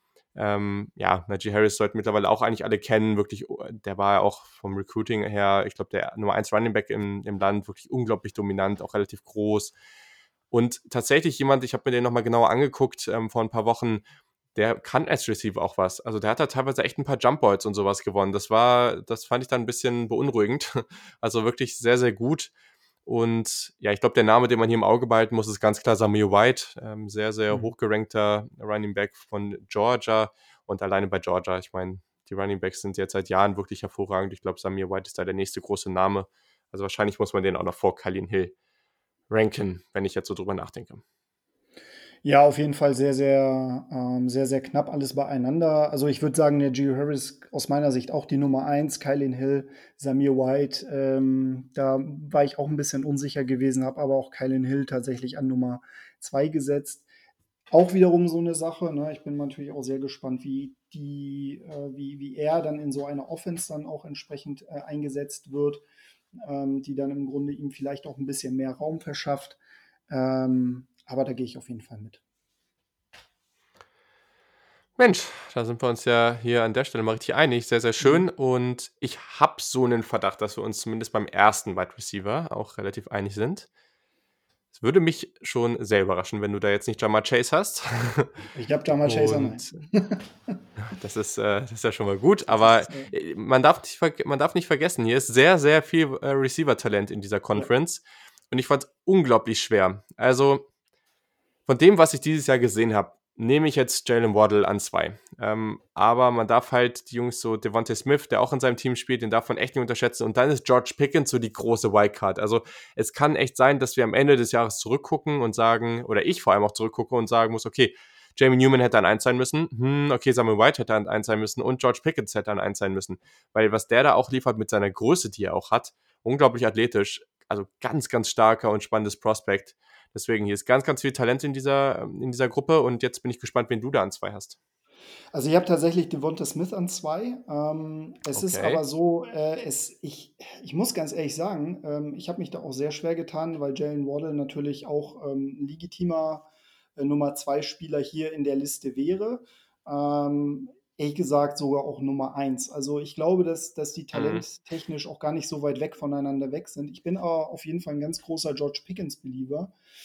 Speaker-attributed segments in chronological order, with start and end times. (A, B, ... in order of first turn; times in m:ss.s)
0:00.3-0:09.7 A
0:10.5-0:14.0 A
0:14.5-0:22.5 A
0:23.0-0:38.5 A
0:39.3-0:41.0 A
0:42.2-0:57.1 B
0:57.7-1:05.8 B
1:06.4-1:09.6 B
1:10.1-1:12.2 B
1:15.0-1:23.7 A
1:18.0-1:18.2 B
1:24.7-1:28.3 A
1:28.5-1:30.6 B
1:28.9-1:29.8 A
1:30.8-1:40.7 A
1:32.5-1:33.1 B
1:41.7-2:14.6 A
2:15.3-2:39.7 B
2:18.3-2:18.8 A
2:34.1-2:34.4 A